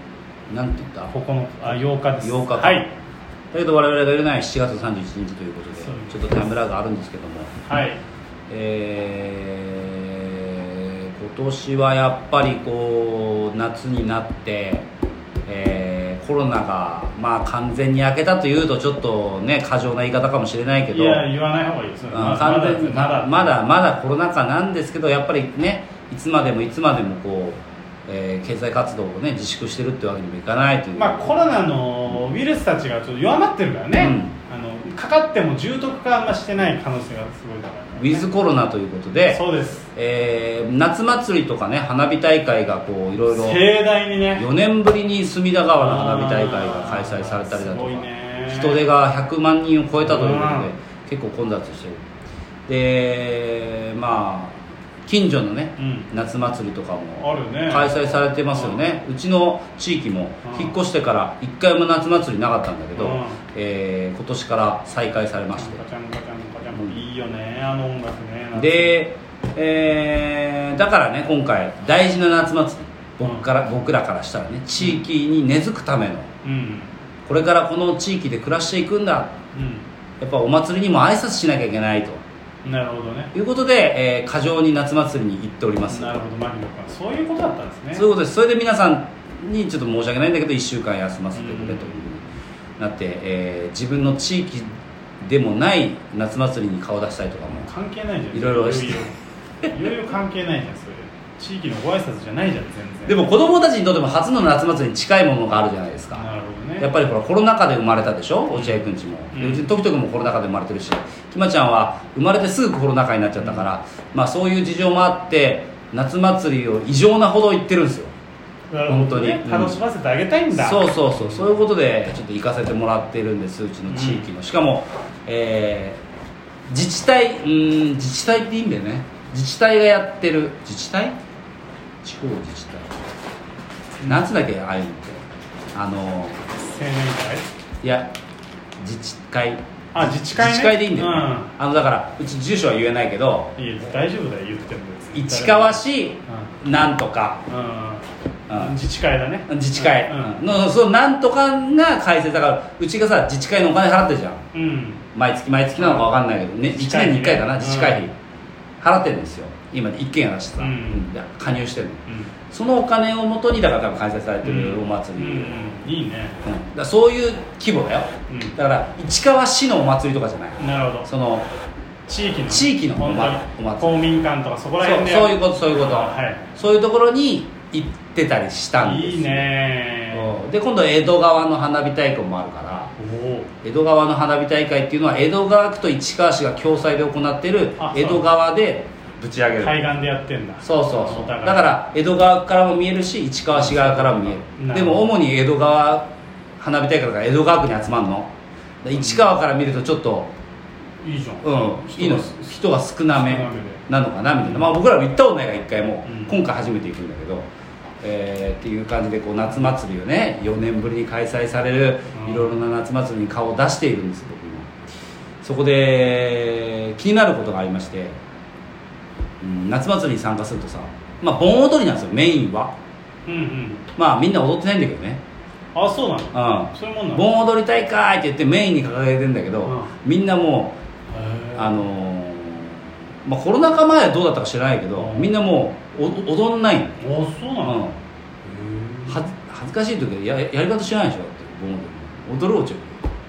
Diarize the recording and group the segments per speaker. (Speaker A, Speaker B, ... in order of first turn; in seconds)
Speaker A: 0.5-1.1, 1.7-2.9, 3.5-7.5, 8.5-14.9, 15.5-21.2, 22.1-31.5, 34.0-34.4, 38.0-39.4, 40.0-43.6, 44.4-52.0, 52.7-65.8, 68.5-76.3, 77.3-79.3, 80.2-82.2, 83.3-86.2, 88.0-92.2, 92.8-94.7, 95.2-97.7, 98.3-99.0, 103.1-106.2, 106.8-118.1, 118.9-119.8, 120.5-126.0, 126.7-131.2, 132.0-132.9, 134.1-135.2, 135.7-136.4, 137.8-138.1, 138.8-139.6, 140.3-143.5, 145.1-147.4, 149.5-154.4, 155.2-158.1, 158.8-165.7, 166.4-171.5, 172.5-173.9, 174.8-179.5, 180.1-182.9, 183.6-189.9, 190.6-196.1, 196.6-198.3, 198.8-200.3, 201.4-207.5, 208.0-214.7, 215.4-218.2, 219.4-222.7, 224.0-225.2, 226.3-230.8, 231.6-237.0, 237.6-238.0, 239.1-243.0
Speaker B: 1.1-2.9, 5.8-6.5, 7.7-8.0, 20.9-23.6, 31.0-38.2, 39.3-39.9, 43.3-44.5, 45.8-48.8, 50.0-50.7, 55.8-56.1, 57.2-58.8, 60.5-60.8, 63.0-63.4, 65.5-69.0, 76.4-76.9, 79.5-79.8, 82.7-83.3, 85.9-88.1, 91.3-92.0, 97.5-99.1, 99.7-103.2, 106.2-106.9, 108.5-109.7, 113.4-113.7, 118.7-121.5, 123.9-124.3, 136.6-137.5, 139.9-141.5, 143.6-146.5, 147.5-150.4, 154.5-155.0, 155.8-156.1, 156.7-158.1, 160.6-161.1, 162.1-162.3, 164.4-166.4, 168.3-168.6, 170.6-171.1, 172.1-176.5, 178.8-180.4, 183.0-183.5, 187.8-188.3, 189.6-191.8, 193.5-195.1, 198.9-199.3, 201.0-202.5, 203.1-203.8, 204.4-204.7, 206.1-206.4, 212.1-212.6, 223.3-223.8, 225.8-227.3, 229.7-229.9, 231.1-231.8, 235.0-235.3, 237.0-237.8, 238.4-239.3